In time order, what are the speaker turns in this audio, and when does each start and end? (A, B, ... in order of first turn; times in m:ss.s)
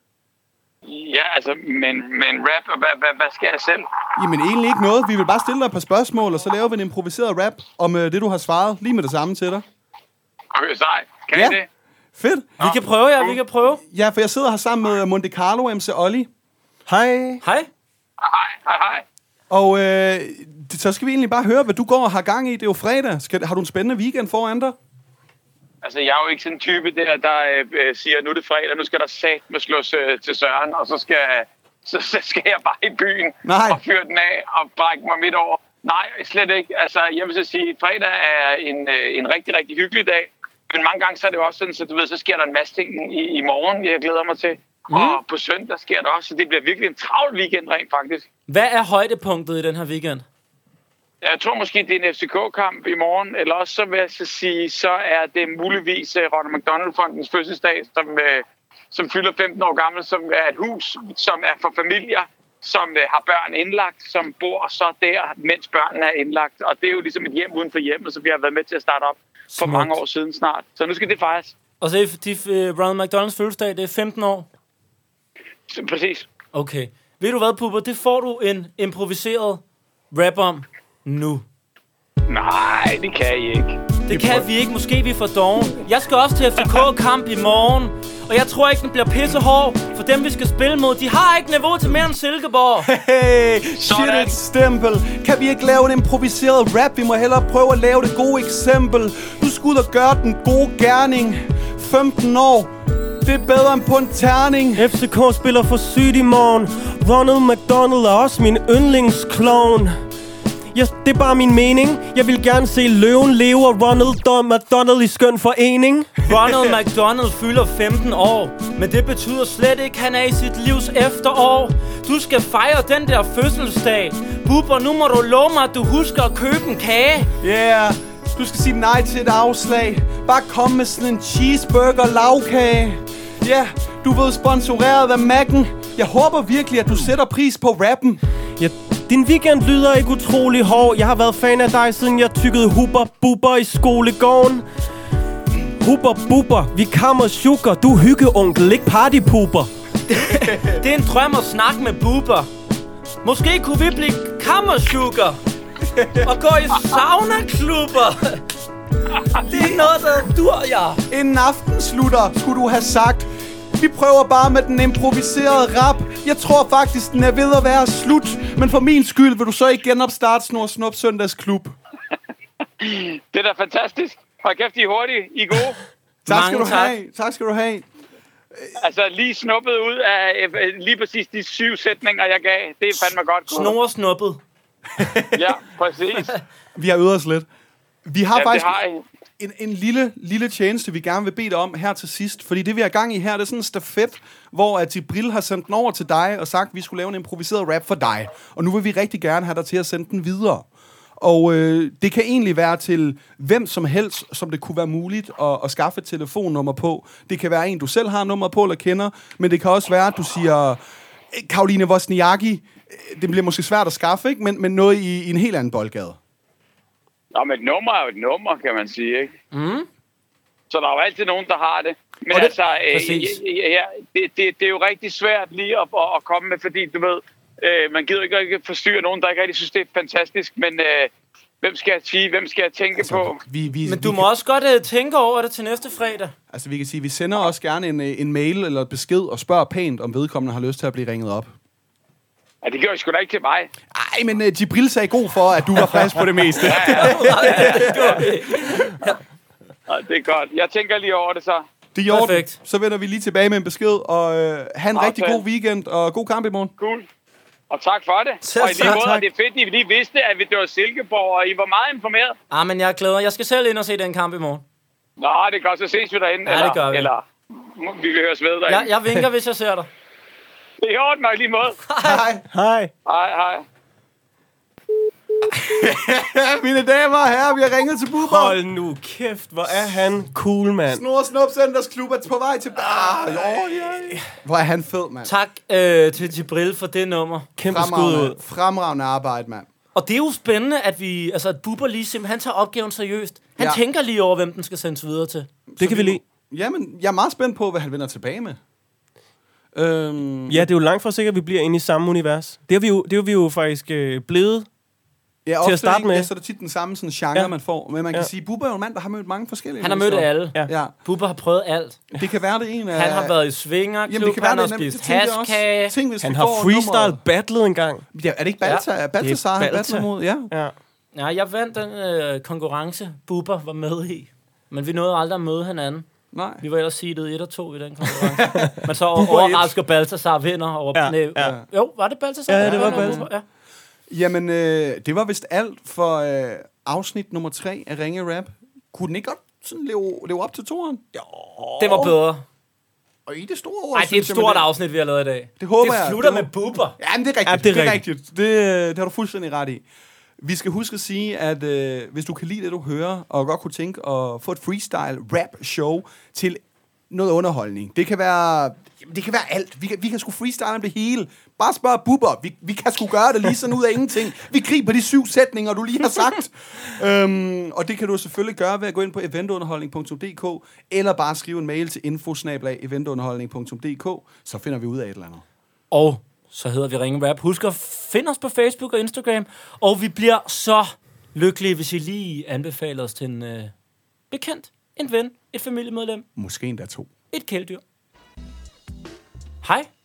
0:00.9-0:03.9 A
0:04.2-0:09.6 B
0:10.5-0:11.7 A
0:11.3-0:11.6 B
0:12.2-0:12.5 B
0:12.6-0:13.8 C
0:12.6-0:13.4 A
0:13.8-0:16.3 B
0:16.9-0:17.4 D
0:17.4-0:17.7 C
0:18.2-0:19.0 A
0:19.5-0:24.8 B
0:25.8-0:48.3 A
0:33.4-0:33.8 B
0:44.9-0:45.2 C
0:48.5-0:50.2 C
0:51.2-1:11.6 A
1:09.6-1:10.0 C
1:11.8-1:14.5 C
1:15.7-1:16.3 A
1:16.5-1:21.4 C
1:22.3-1:23.8 A
1:24.1-1:32.9 C
1:24.1-1:24.5 B
1:32.8-1:42.7 B
1:33.8-1:34.4 A
1:43.2-1:44.9 B
1:44.8-1:49.9 D
1:50.7-1:56.2 D
1:56.2-2:07.3 C
2:07.4-2:18.2 B
2:18.6-2:24.6 D
2:25.8-2:29.7 D
2:30.1-2:32.5 C
2:30.4-2:30.8 B
2:33.2-2:35.4 C
2:35.9-2:36.3 B
2:36.2-2:38.4 C
2:39.4-2:41.0 C
2:39.5-2:39.9 B
2:41.1-2:51.8 B
2:52.8-2:55.8 A
2:56.3-2:57.9 B
2:56.3-2:57.0 C
2:58.8-3:03.8 A
3:03.5-3:04.4 C
3:05.0-3:05.6 B
3:05.4-3:06.4 A
3:06.8-3:07.5 B
3:08.1-3:08.8 B
3:08.3-3:09.0 A
3:09.4-3:20.7 B
3:21.2-3:30.8 B
3:31.3-3:36.2 B
3:37.3-3:39.3 A
3:39.5-3:39.9 C
3:40.7-3:51.1 A
3:42.3-3:43.4 C
3:51.6-3:53.4 A
3:53.0-3:54.3 B
3:53.8-3:56.3 C
3:56.5-4:01.5 B
4:02.6-4:03.7 A
4:03.9-4:08.3 B
4:06.7-4:07.7 A
4:06.8-4:09.2 C
4:07.7-4:08.0 D
4:09.9-4:11.6 A
4:12.0-4:16.7 B
4:12.1-4:12.6 C
4:14.9-4:15.4 A
4:16.8-4:17.1 A
4:17.7-4:22.4 A
4:18.4-4:19.2 C
4:18.7-4:19.3 D
4:22.5-4:24.6 C
4:25.2-4:28.9 A
4:26.5-4:27.1 C
4:28.7-4:29.9 C
4:30.8-4:31.8 A
4:31.9-4:32.2 C
4:32.0-4:32.4 B
4:32.5-4:32.9 D
4:33.0-4:33.6 A
4:35.5-4:38.6 B
4:38.2-4:41.0 D
4:39.7-4:40.0 B
4:40.9-4:45.3 B
4:45.2-4:47.5 C
4:47.6-4:48.4 D
4:47.7-4:49.7 B
4:50.0-4:55.5 C
4:55.7-4:58.6 B
4:55.8-4:56.2 D
4:59.7-5:00.7 B
5:00.5-5:04.7 D
5:05.4-5:10.9 B
5:05.6-5:06.3 D
5:09.8-5:12.0 C
5:12.1-5:13.4 B
5:12.9-5:16.0 C
5:14.0-5:17.2 B
5:16.2-5:18.0 D
5:18.1-5:20.5 B
5:19.2-5:20.7 D
5:21.2-5:26.1 C
5:26.3-5:26.6 B
5:26.6-5:33.4 C
5:28.3-5:28.8 B
5:29.2-5:29.7 D
5:31.0-5:31.6 D
5:32.5-5:33.3 D
5:32.6-5:33.3 B
5:34.1-5:41.0 B
5:41.2-5:42.2 D
5:41.8-5:42.4 C
5:43.3-5:44.7 B
5:43.9-5:47.0 C
5:45.6-5:49.8 B
5:47.4-5:48.0 D
5:50.4-6:15.4 B
6:15.9-6:23.7 C
6:24.3-6:26.2 C
6:26.4-6:27.1 B
6:27.3-6:27.8 C
6:29.6-6:29.9 C